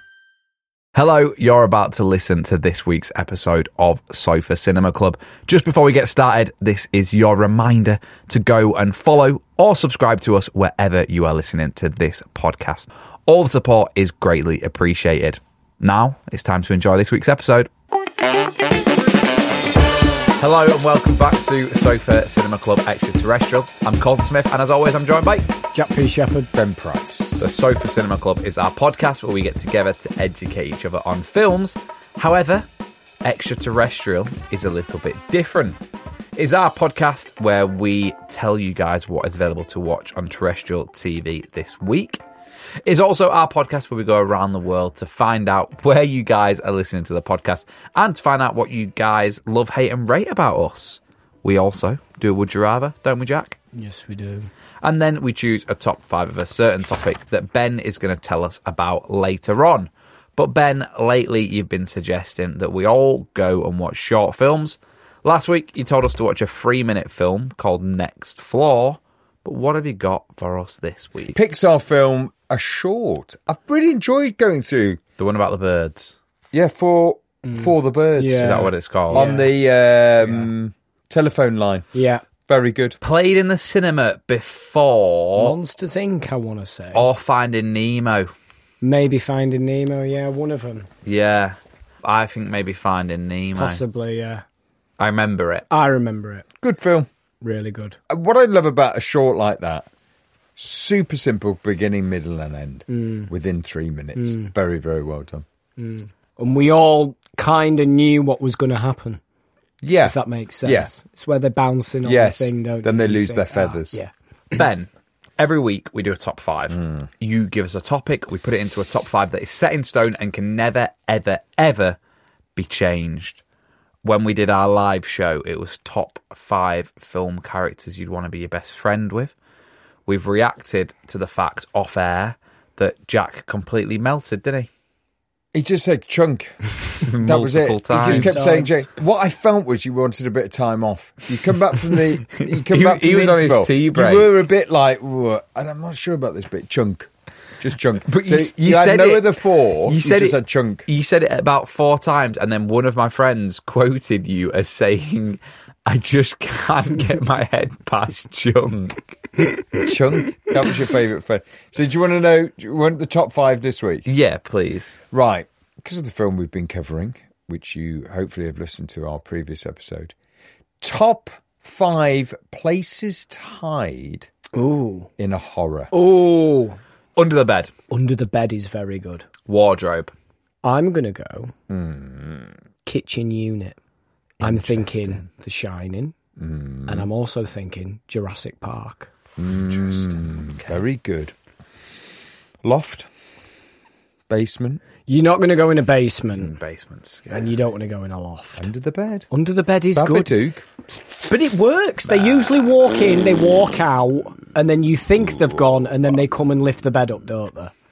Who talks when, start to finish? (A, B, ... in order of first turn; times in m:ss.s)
0:01.0-0:17.7 A
0:20.4-0:25.5 A
0:25.7-0:26.5 B
0:26.5-0:27.5 C
0:27.4-0:32.7 A
0:33.2-0:35.8 A
0:36.4-0:42.2 A
0:42.9-0:53.6 A
0:53.7-0:54.5 B
0:54.8-1:11.4 A
1:11.3-1:15.0 C
1:15.2-1:16.2 A
1:16.5-1:21.9 C
1:17.4-1:19.5 B
1:18.4-1:19.3 A
1:20.2-1:20.5 B
1:21.9-1:22.2 B
1:22.4-1:23.0 C
1:23.0-1:25.6 A
1:25.4-1:27.0 B
1:26.9-1:28.3 A
1:28.8-1:30.9 B
1:31.0-1:33.8 A
1:33.6-1:34.4 B
1:35.0-1:35.7 A
1:35.7-1:36.4 B
1:36.6-1:37.1 C
1:37.4-1:38.0 B
1:38.1-1:39.9 C
1:40.6-1:45.4 C
1:42.9-1:43.3 B
1:44.2-1:44.5 B
1:45.8-1:49.2 B
1:49.8-1:50.9 C
1:50.0-1:54.6 B
1:52.0-1:54.0 C
1:54.5-2:02.0 A
2:02.6-2:03.4 A
2:04.0-2:09.3 A
2:10.1-2:14.7 A
2:15.5-2:16.6 C
2:17.1-2:18.4 A
2:17.2-2:30.9 C
2:18.0-2:18.8 B
2:22.3-2:24.3 A
2:28.1-2:39.0 A
2:39.8-2:44.1 C
2:44.1-2:45.0 A
2:45.1-2:50.1 C
2:50.8-2:54.3 C
2:54.5-2:55.1 B
2:55.2-2:55.9 C
2:55.9-2:56.8 B
2:57.2-2:57.7 A
2:57.9-2:59.3 B
2:59.5-3:00.1 A
3:00.6-3:01.5 B
3:01.7-3:02.6 C
3:02.9-3:03.8 B
3:04.4-3:05.3 A
3:04.4-3:06.1 B
3:06.4-3:07.1 C
3:06.9-3:09.1 B
3:09.4-3:11.3 C
3:10.5-3:10.8 A
3:12.6-3:13.1 C
3:14.3-3:14.8 C
3:15.1-3:16.5 B
3:16.4-3:17.5 A
3:17.3-3:18.7 B
3:18.6-3:19.3 C
3:19.3-3:20.3 B
3:19.9-3:20.6 C
3:21.3-3:27.7 B
3:22.1-3:22.6 A
3:25.1-3:26.2 C